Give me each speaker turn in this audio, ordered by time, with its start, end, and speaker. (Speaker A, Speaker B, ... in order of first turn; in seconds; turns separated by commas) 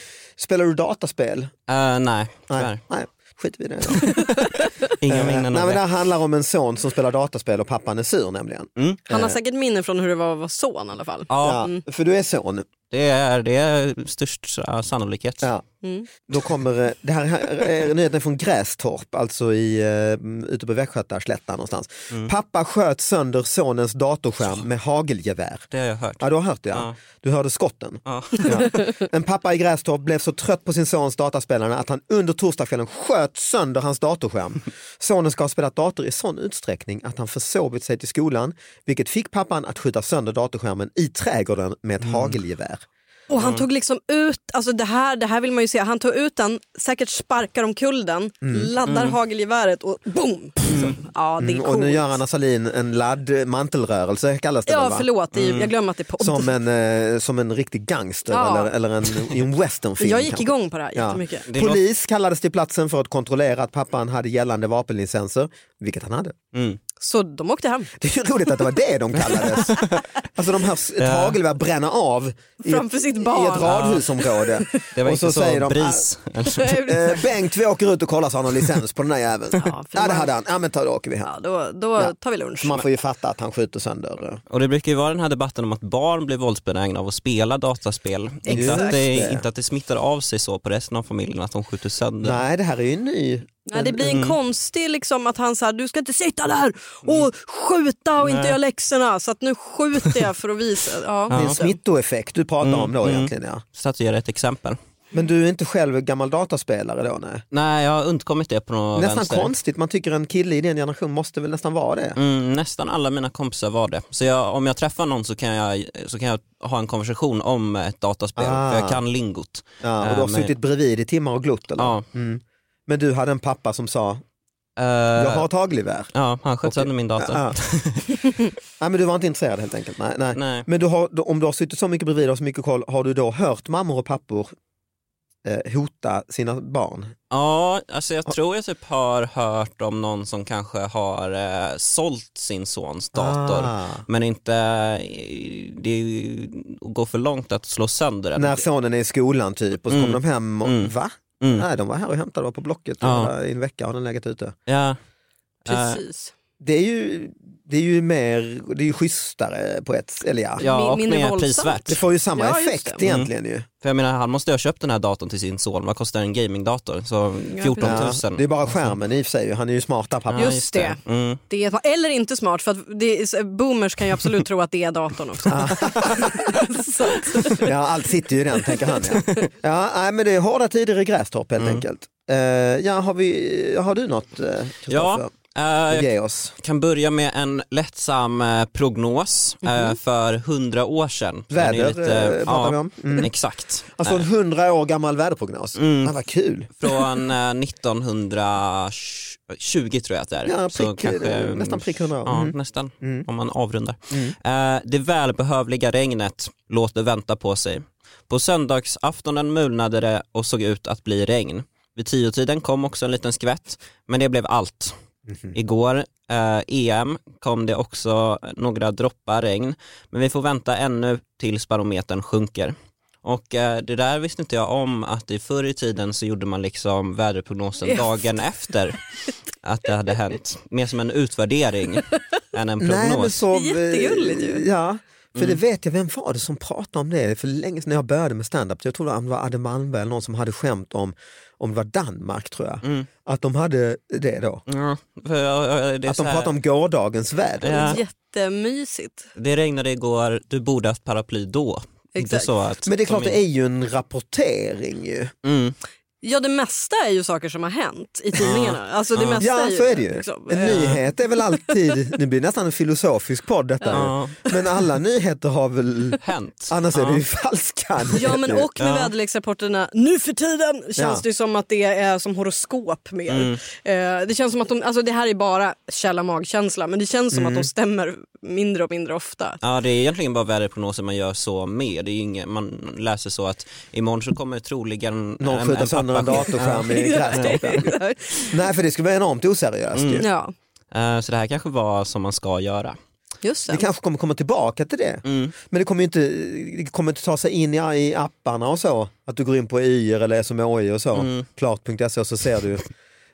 Speaker A: 0.4-1.5, Speaker B: 1.7-2.8, Speaker A: 2.5-9.3, Speaker B: 3.9-5.8, Speaker B: 8.8-9.0, Speaker C: 9.1-11.8, Speaker B: 11.3-11.7, Speaker A: 11.4-12.7, Speaker B: 12.9-15.5, Speaker C: 15.8-16.1, Speaker A: 16.2-25.7, Speaker B: 25.7-26.9, Speaker A: 26.2-42.8, Speaker B: 28.0-28.9, Speaker B: 42.0-42.4, Speaker C: 43.3-52.2, Speaker B: 43.4-43.6, Speaker A: 48.4-48.7, Speaker B: 48.8-49.2, Speaker B: 50.7-51.0, Speaker A: 51.4-55.1, Speaker C: 54.7-56.5, Speaker B: 55.3-55.7, Speaker A: 56.2-66.3, Speaker C: 58.3-58.7, Speaker C: 60.0-61.5, Speaker B: 61.5-61.8, Speaker B: 66.5-66.8, Speaker C: 67.0-67.9, Speaker A: 68.0-76.1, Speaker B: 69.2-70.0, Speaker B: 71.0-71.3, Speaker C: 72.6-74.8, Speaker B: 73.6-74.1, Speaker B: 74.9-76.9, Speaker C: 76.5-77.2, Speaker A: 76.7-81.3, Speaker C: 79.5-80.3, Speaker C: 81.2-82.8, Speaker A: 82.0-84.4, Speaker B: 84.5-92.4, Speaker C: 88.4-89.0, Speaker A: 88.5-89.4, Speaker A: 92.2-94.3, Speaker C: 93.7-101.8, Speaker B: 94.1-94.3, Speaker B: 98.2-98.6, Speaker B: 101.3-101.6, Speaker A: 101.3-103.6, Speaker B: 102.6-104.8, Speaker A: 105.1-107.4, Speaker B: 107.5-109.5, Speaker A: 108.9-112.2, Speaker B: 112.2-120.5, Speaker A: 118.4-119.0, Speaker A: 119.8-124.2, Speaker B: 121.8-122.0, Speaker B: 124.8-125.5, Speaker A: 125.2-126.1, Speaker B: 126.1-128.2, Speaker A: 126.6-127.5, Speaker A: 128.8-134.5, Speaker B: 130.3-130.7, Speaker A: 135.4-137.1, Speaker B: 137.3-148.6, Speaker A: 143.1-144.0, Speaker A: 148.3-154.5, Speaker B: 149.9-151.6, Speaker B: 153.0-153.3, Speaker B: 154.7-155.0, Speaker B: 155.6-156.0, Speaker C: 155.7-156.3, Speaker A: 156.6-160.6, Speaker C: 160.6-163.0, Speaker B: 160.6-162.0, Speaker A: 161.9-163.7, Speaker B: 163.0-163.3, Speaker B: 163.8-168.9, Speaker C: 167.5-168.0, Speaker A: 167.8-170.6, Speaker B: 170.3-171.4, Speaker C: 170.4-177.7, Speaker A: 175.5-176.6, Speaker B: 177.1-177.6, Speaker A: 177.5-185.3, Speaker C: 178.6-179.4, Speaker B: 179.1-179.5, Speaker B: 181.6-181.8, Speaker B: 184.9-194.2, Speaker A: 185.9-186.5, Speaker A: 191.5-193.3, Speaker A: 193.9-196.7, Speaker B: 195.8-196.1, Speaker B: 196.8-214.9, Speaker A: 200.4-203.3, Speaker A: 215.3-215.5, Speaker B: 215.5-229.0, Speaker B: 229.6-233.4, Speaker A: 232.8-244.6, Speaker C: 233.5-234.6, Speaker B: 235.3-235.6, Speaker B: 242.8-243.1, Speaker B: 244.7-246.5, Speaker A: 246.1-248.0, Speaker B: 247.6-248.0, Speaker C: 247.7-249.3, Speaker B: 249.3-253.4, Speaker C: 252.2-252.5, Speaker A: 252.8-255.3, Speaker B: 255.4-255.8, Speaker C: 256.2-261.9, Speaker B: 258.4-259.4, Speaker A: 259.4-268.7, Speaker B: 260.6-261.0, Speaker C: 263.8-264.6, Speaker B: 263.9-264.3, Speaker B: 266.2-267.2, Speaker C: 268.1-279.6, Speaker B: 268.8-269.1, Speaker A: 271.0-271.2, Speaker B: 273.3-273.6, Speaker A: 277.3-277.7, Speaker B: 279.6-287.9, Speaker A: 285.4-290.3, Speaker C: 286.7-288.7, Speaker B: 289.9-290.2, Speaker C: 290.2-290.5, Speaker B: 290.9-293.0, Speaker C: 293.4-293.9, Speaker A: 293.7-302.9, Speaker B: 295.2-295.5, Speaker B: 301.1-301.4